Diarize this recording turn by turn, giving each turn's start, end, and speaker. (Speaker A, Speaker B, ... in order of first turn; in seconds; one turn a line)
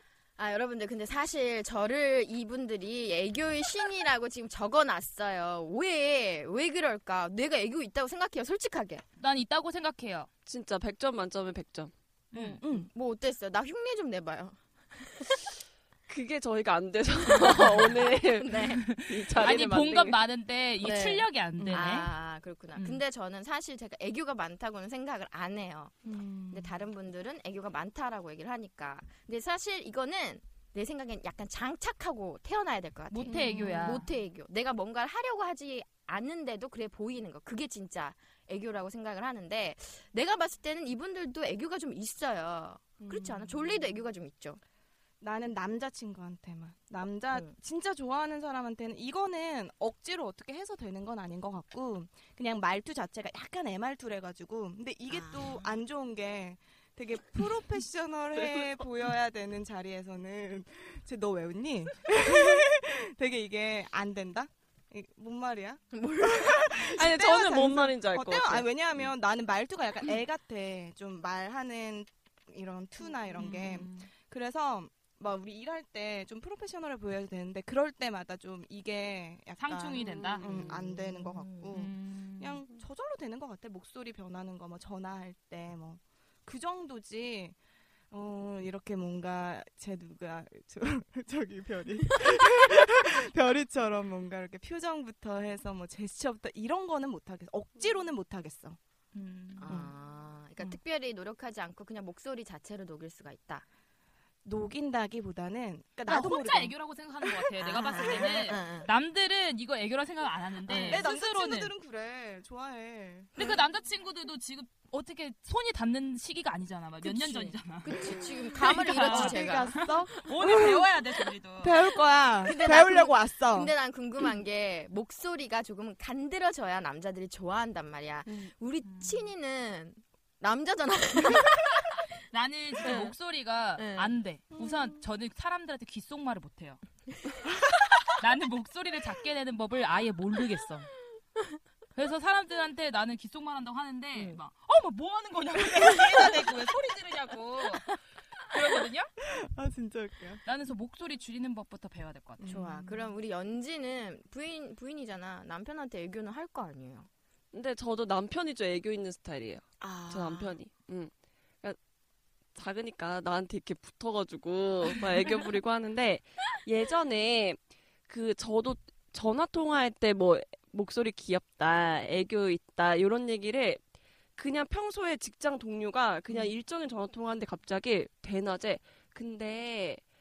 Speaker A: 0.4-9.0
Speaker B: 9.2-10.3
Speaker C: 10.4-11.9
Speaker B: 12.3-12.6
Speaker A: 12.4-15.4
Speaker D: 12.6-12.9
Speaker C: 16.1-20.2
Speaker A: 17.5-18.8
Speaker B: 18.8-22.1
Speaker A: 20.8-25.9
Speaker D: 26.0-26.7
Speaker A: 26.5-44.6
Speaker B: 33.1-34.0
Speaker D: 33.3-34.0
Speaker D: 43.0-43.9
Speaker D: 45.2-87.5
Speaker A: 55.1-55.8
Speaker C: 58.3-58.7
Speaker A: 65.9-67.0
Speaker C: 66.9-68.7
Speaker B: 73.4-73.8
Speaker B: 79.6-80.5
Speaker A: 80.4-81.8
Speaker B: 81.7-82.6
Speaker D: 88.1-98.8
Speaker B: 99.1-99.8
Speaker A: 99.6-103.6
Speaker D: 99.7-99.9
Speaker D: 104.4-106.7
Speaker B: 106.1-111.7
Speaker A: 107.6-108.9
Speaker D: 108.0-108.4
Speaker A: 110.7-111.1
Speaker D: 110.7-113.5
Speaker B: 113.4-118.0
Speaker A: 117.0-119.9
Speaker D: 118.0-120.9
Speaker B: 118.5-121.8
Speaker D: 121.6-123.7
Speaker A: 122.4-132.0
Speaker B: 128.8-129.3
Speaker B: 132.3-136.8
Speaker A: 132.8-133.1
Speaker A: 133.8-134.1
Speaker B: 138.2-140.9
Speaker B: 141.9-147.8
Speaker D: 145.8-146.5
Speaker B: 148.5-149.1
Speaker D: 149.2-150.4
Speaker B: 150.4-152.5
Speaker D: 152.4-153.1
Speaker A: 152.4-157.1
Speaker C: 157.5-161.1
Speaker A: 159.8-160.6
Speaker C: 162.5-173.8
Speaker C: 174.3-180.0